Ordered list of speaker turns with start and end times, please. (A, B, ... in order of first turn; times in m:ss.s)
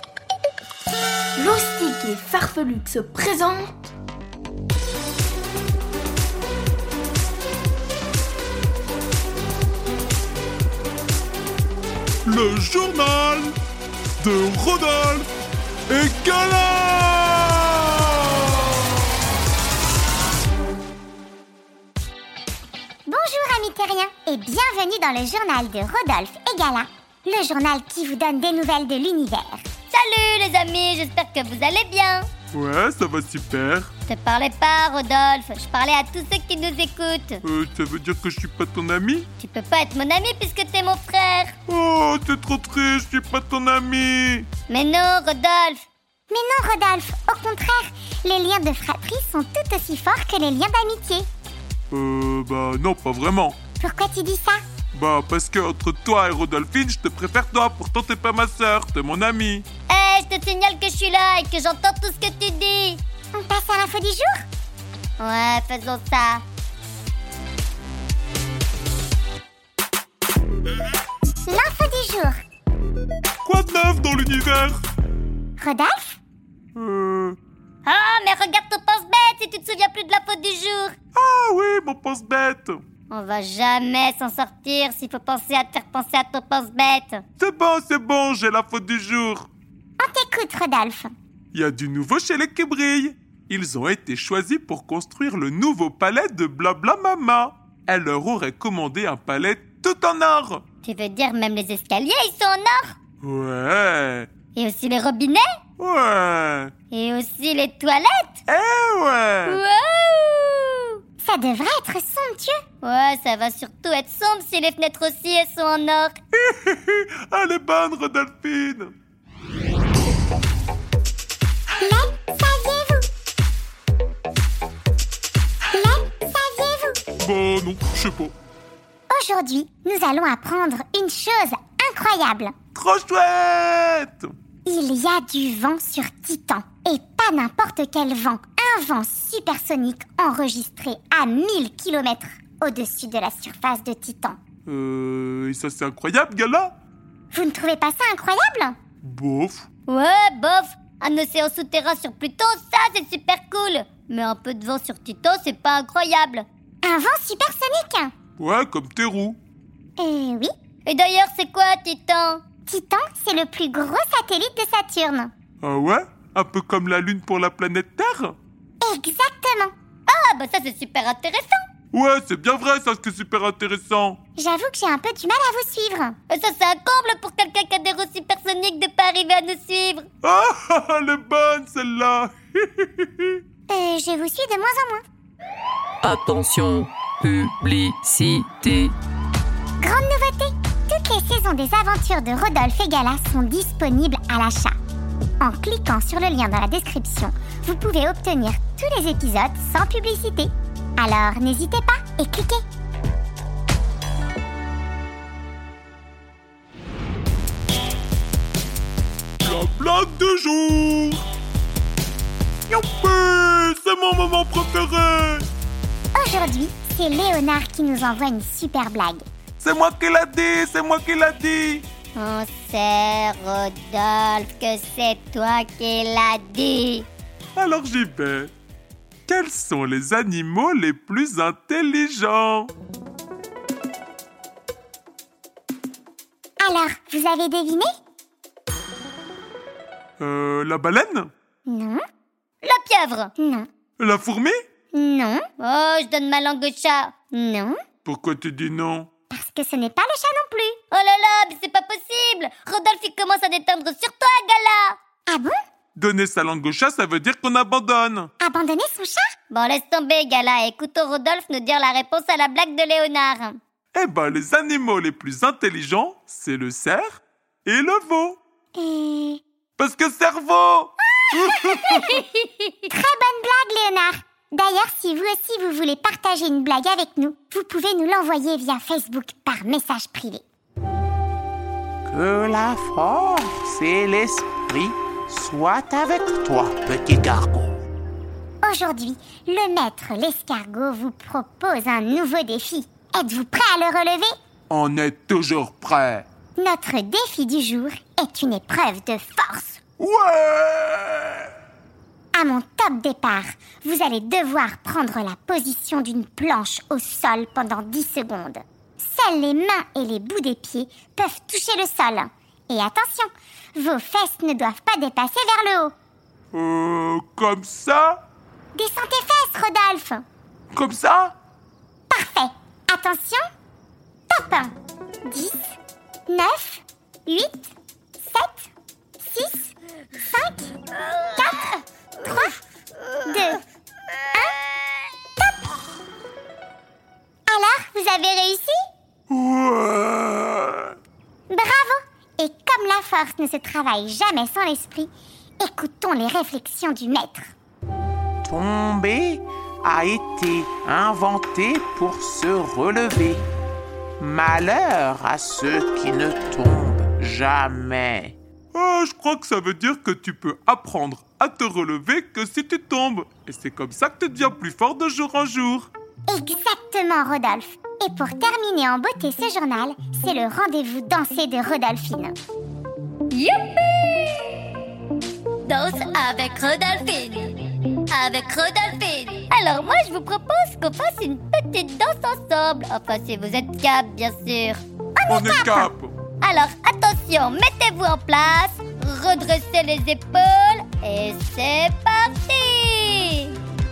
0:01.4-0:03.9 A
0:12.2-0:13.6 B
0:14.2-0:15.3 B
0:15.9-0:18.8 B
0:23.1-0:29.7 C
0:29.9-0:32.3 D
0:32.5-0:33.9 B
0:34.1-0:37.4 D
0:37.4-0:39.3 B
0:39.4-0:41.6 D
0:41.7-0:44.5 B
0:44.7-0:45.8 D
0:46.3-0:51.3 C
0:51.9-0:53.6 B
0:53.8-0:54.6 C
0:54.9-0:59.7 B
0:59.9-1:03.0 D
1:03.3-1:04.4 C
1:05.2-1:06.4 D
1:11.5-1:12.4 C
1:13.4-1:14.8 B
1:15.6-1:16.2 C
1:16.7-1:17.4 B
1:17.8-1:21.0 D
1:21.1-1:22.8 B
1:23.1-1:27.2 D
1:27.4-1:29.5 B
1:30.0-1:31.1 C
1:31.5-1:40.6 B
1:40.8-1:43.0 D
1:43.2-1:44.3 B
1:44.5-1:45.4 D
1:45.8-1:46.7 B
1:46.9-1:48.4 D
1:48.5-1:49.6 B
1:49.4-1:51.0 D
1:51.2-1:52.6 C
1:52.8-1:56.2 D
1:56.3-1:58.9 B
2:01.8-2:03.0 C
2:05.7-2:07.0 C
2:07.2-2:08.3 B
2:09.1-2:12.5 C
2:12.7-2:14.3 B
2:14.6-2:24.4 C
2:24.7-2:26.7 B
2:27.3-2:28.8 C
2:29.0-2:29.7 B
2:29.9-2:36.5 D
2:36.8-2:38.1 C
2:38.4-2:39.4 B
2:40.0-2:40.5 C
2:40.8-2:42.4 D
2:42.7-2:45.3 C
2:45.6-2:48.4 B
2:48.8-2:49.7 C
2:50.1-2:51.6 D
2:51.9-2:54.2 B
2:54.4-2:56.1 C
2:56.3-3:00.1 D
3:00.2-3:03.4 B
3:03.7-3:05.0 C
3:06.0-3:09.0 E
3:09.8-3:14.7 C
3:15.4-3:22.6 C
3:29.4-3:31.2 B
3:32.7-3:35.5 B
3:36.1-3:39.2 C
3:39.6-3:41.8 B
3:42.1-3:47.1 D
3:47.6-3:48.5 B
3:49.3-3:52.7 B
3:56.6-3:57.9 C
4:00.2-4:01.3 B
4:01.7-4:02.0 C
4:02.6-4:03.3 D
4:03.4-4:03.7 C
4:04.0-4:04.6 B
4:04.9-4:05.4 C
4:05.6-4:07.7 D
4:08.0-4:09.1 B
4:09.3-4:10.8 C
4:10.9-4:15.0 D
4:15.3-4:15.6 C
4:16.0-4:18.3 B
4:18.4-4:19.3 C
4:19.5-4:23.6 D
4:23.9-4:28.4 B
4:28.8-4:29.4 C
4:29.8-4:32.2 B
4:31.6-4:32.9 D
4:32.9-4:40.4 C
4:42.1-4:47.8 F
4:48.6-4:54.3 C
4:54.7-4:56.2 B
4:56.6-4:59.8 C
5:00.0-5:01.5 B
5:02.3-5:15.9 C
5:16.5-5:18.2 B
5:18.7-5:20.2 C
5:20.7-5:21.3 B
5:22.1-5:23.5 C
5:24.3-5:24.7 C
5:25.3-5:25.8 C
5:26.3-5:29.7 C
5:30.3-5:30.8 C
5:31.2-5:31.7 D
5:31.4-5:32.6 C
5:33.3-5:33.6 C
5:37.5-5:38.8 C
5:39.3-5:40.9 B
5:41.5-5:47.5 C
5:48.4-5:53.4 F
5:54.2-5:58.4 F
5:58.7-6:05.9 B
6:06.3-6:12.4 C
6:13.3-6:14.5 D
6:15.6-6:24.8 D
6:25.2-6:25.9 C
6:25.3-6:26.2 B
6:26.4-6:33.6 D